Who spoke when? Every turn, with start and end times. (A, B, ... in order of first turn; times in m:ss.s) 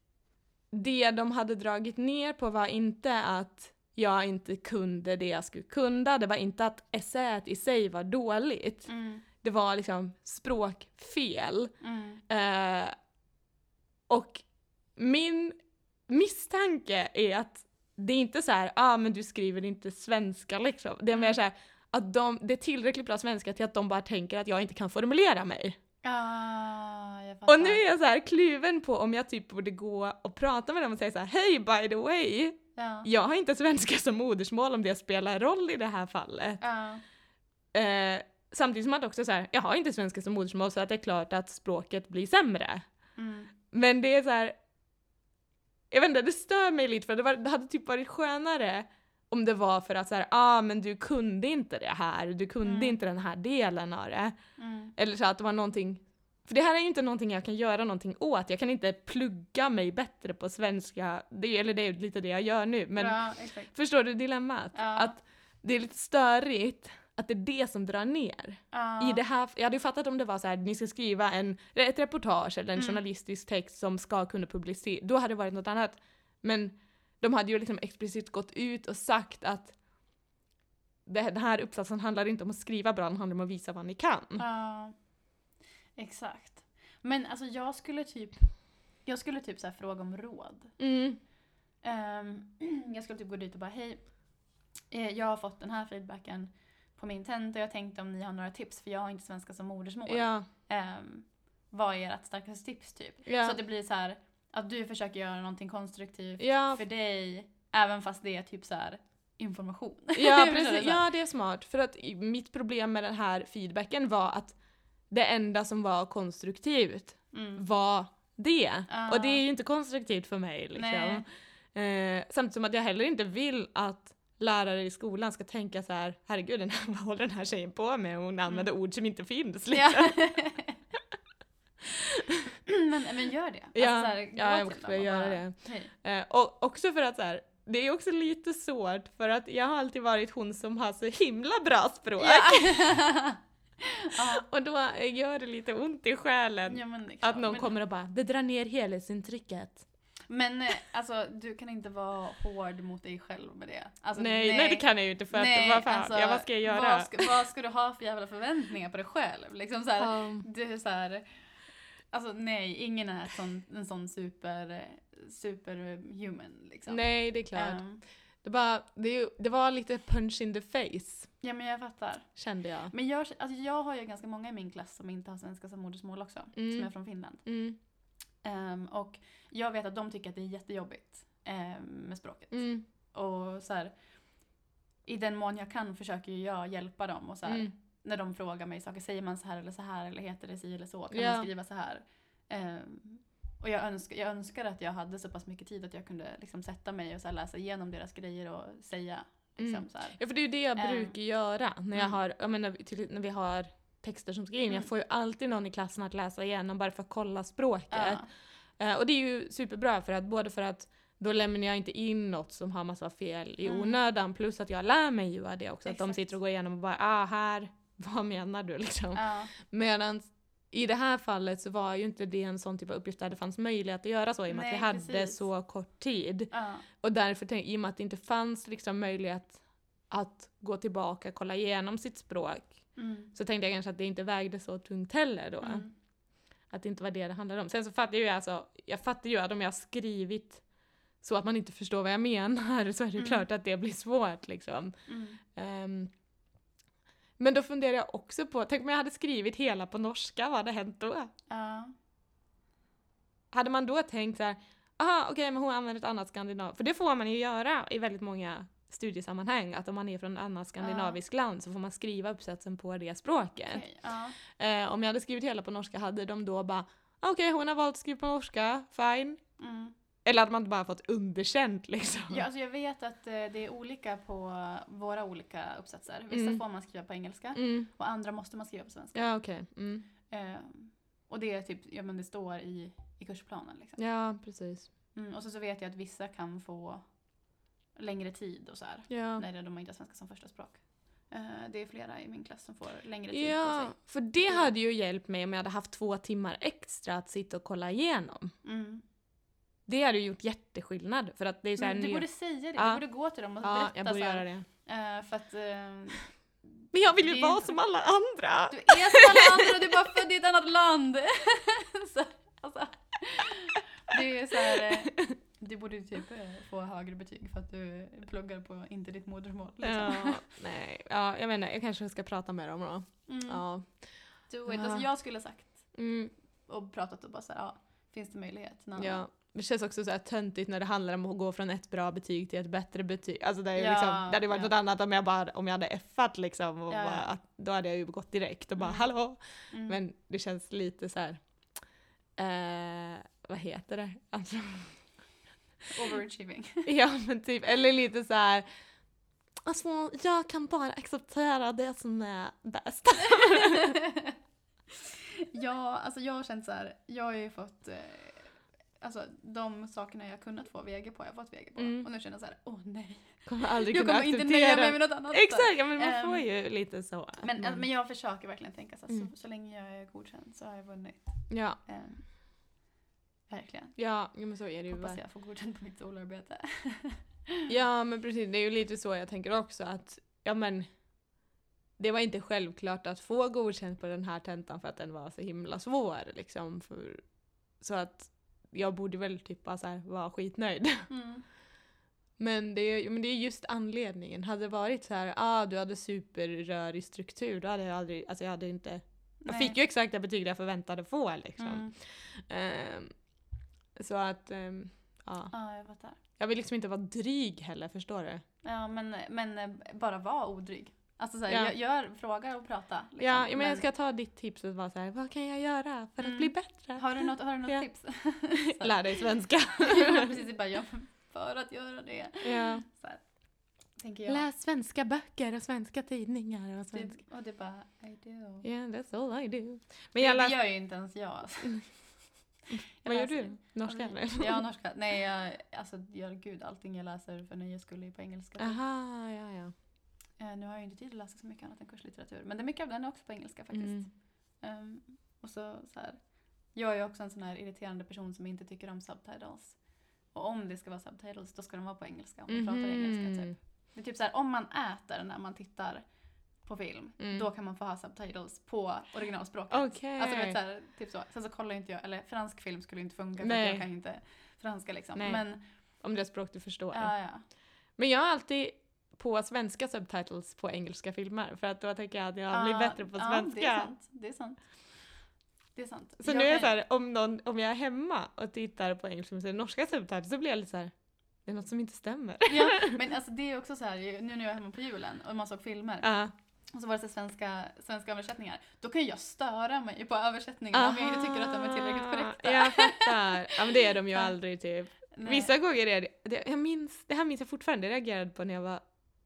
0:00.7-0:08.9 A
0:08.9-0:09.2 B
0:09.4-0:11.7 A
0:11.8-0:12.2 B
0:12.3-0:12.9 A
0:14.1-0:14.4 A
0:15.0-0:15.6 A
0:16.1-0:25.8 A
0:26.0-0:27.8 B
0:27.5-0:36.6 A
0:32.8-0:33.1 B
0:36.6-0:37.0 B
0:37.7-0:42.8 A
0:43.2-0:43.5 B
0:43.7-0:44.5 A
0:45.9-0:54.3 A
0:52.6-0:53.0 B
0:54.6-0:54.9 B
0:55.0-1:03.2 A
1:03.0-1:03.7 B
1:03.7-1:19.8 A
1:04.7-1:05.2 B
1:08.7-1:09.2 B
1:21.0-1:24.4 A
1:24.4-1:24.9 B
1:26.0-1:30.7 B
1:30.8-1:31.2 A
1:31.8-1:34.1 B
1:34.9-1:51.0 B
1:40.1-1:40.5 A
1:43.2-1:43.6 A
1:46.4-1:46.8 A
1:50.2-1:54.6 A
1:55.1-2:10.3 A
1:57.3-1:57.6 B
1:58.9-1:59.4 B
2:00.8-2:01.2 B
2:09.7-2:10.8 B
2:11.9-2:12.5 A
2:12.7-2:15.9 B
2:13.7-2:22.9 A
2:22.2-2:24.4 B
2:24.3-2:29.8 A
2:26.7-2:27.7 B
2:30.3-2:41.3 B
2:34.2-2:37.3 A
2:40.0-2:40.4 A
2:42.1-2:48.0 B
2:46.9-2:47.8 A
2:48.4-2:51.3 A
2:51.4-2:52.4 B
2:52.4-2:52.9 A
2:52.9-2:57.4 B
2:56.5-2:56.9 A
2:57.4-2:57.8 A
2:58.4-3:04.0 B
3:02.5-3:02.8 A
3:05.0-3:20.2 B
3:07.5-3:07.7 A
3:11.1-3:11.5 A
3:19.6-3:28.2 A
3:20.8-3:21.1 B
3:27.9-3:28.3 B
3:28.8-3:55.8 A
3:33.6-3:34.0 B
3:35.9-3:36.3 B
3:39.1-3:39.5 B
3:44.5-3:45.4 B
3:46.5-3:46.8 B
3:53.0-3:53.3 B
3:55.6-3:55.9 B
3:56.7-4:00.6 A
4:01.2-4:05.0 A
4:03.2-4:03.4 B
4:05.1-4:05.4 B
4:05.5-4:06.1 A
4:07.4-4:11.3 A
4:11.5-4:11.9 B
4:13.5-4:23.8 A
4:20.8-4:21.2 B
4:23.7-4:24.4 B
4:24.5-4:29.4 A
4:29.6-4:29.9 B
4:30.2-4:32.4 A
4:32.3-4:39.2 B
4:36.3-4:36.6 A
4:37.5-4:37.9 A
4:39.1-4:40.0 A
4:40.3-4:44.0 B
4:44.0-4:44.9 A
4:45.1-4:47.0 B
4:48.0-4:54.6 B
4:49.1-4:49.4 A
4:53.3-4:58.5 A
4:58.6-4:59.0 B
4:59.9-5:02.2 A
5:01.8-5:07.7 B
5:02.8-5:03.0 A
5:03.6-5:04.6 A
5:06.9-5:09.8 A
5:08.7-5:20.5 B
5:14.7-5:15.3 A
5:19.8-5:24.0 A
5:23.3-5:23.6 B
5:24.5-5:25.9 B
5:24.6-5:25.0 A
5:25.9-5:26.3 A
5:26.7-5:29.2 B
5:29.0-5:41.4 A
5:33.7-5:34.7 B
5:36.9-5:37.3 B
5:39.7-5:40.0 B
5:42.4-5:45.0 A
5:45.9-5:46.9 B
5:46.8-5:48.6 A
5:49.6-5:54.0 A
5:53.5-5:54.3 B
5:55.0-6:06.4 B
6:01.8-6:02.0 A
6:03.4-6:07.8 A
6:07.4-6:12.3 B
6:11.5-6:11.8 A
6:13.5-6:14.0 B
6:14.0-6:15.2 A
6:14.9-6:17.7 B
6:17.7-6:20.9 A
6:22.0-6:27.2 A
6:27.8-6:31.1 A
6:31.1-6:31.4 B
6:32.4-6:43.1 A
6:39.4-6:39.7 B
6:41.6-6:41.9 B
6:44.0-6:45.5 A
6:45.5-6:46.2 B
6:46.4-6:48.4 A
6:48.6-6:53.8 B
6:51.5-6:51.7 A
6:53.2-6:57.8 A
6:56.2-6:59.2 B
6:58.5-7:00.3 A
6:59.8-7:03.2 B
7:02.4-7:02.8 A
7:04.0-7:04.4 B
7:04.3-7:07.1 A
7:06.9-7:08.6 B
7:08.6-7:10.6 A
7:10.2-7:11.9 B
7:12.7-7:14.6 A
7:13.0-7:18.8 B
7:18.6-7:19.7 A
7:20.4-7:26.2 B
7:23.7-7:24.1 A
7:26.7-7:29.8 B
7:30.3-7:36.0 B
7:32.5-7:33.5 A
7:36.6-7:45.6 B
7:37.2-7:37.4 A
7:39.7-7:40.6 A
7:43.4-7:43.8 A
7:45.2-7:45.4 A
7:46.0-7:47.1 A
7:46.9-7:47.4 B
7:48.0-7:53.9 A
7:52.5-7:54.6 B
7:55.8-7:56.7 B
7:56.2-8:00.9 A
8:01.4-8:03.0 A
8:02.4-8:06.1 B
8:06.0-8:06.3 A
8:06.7-8:14.3 B
8:10.7-8:18.8 A
8:15.1-8:15.5 B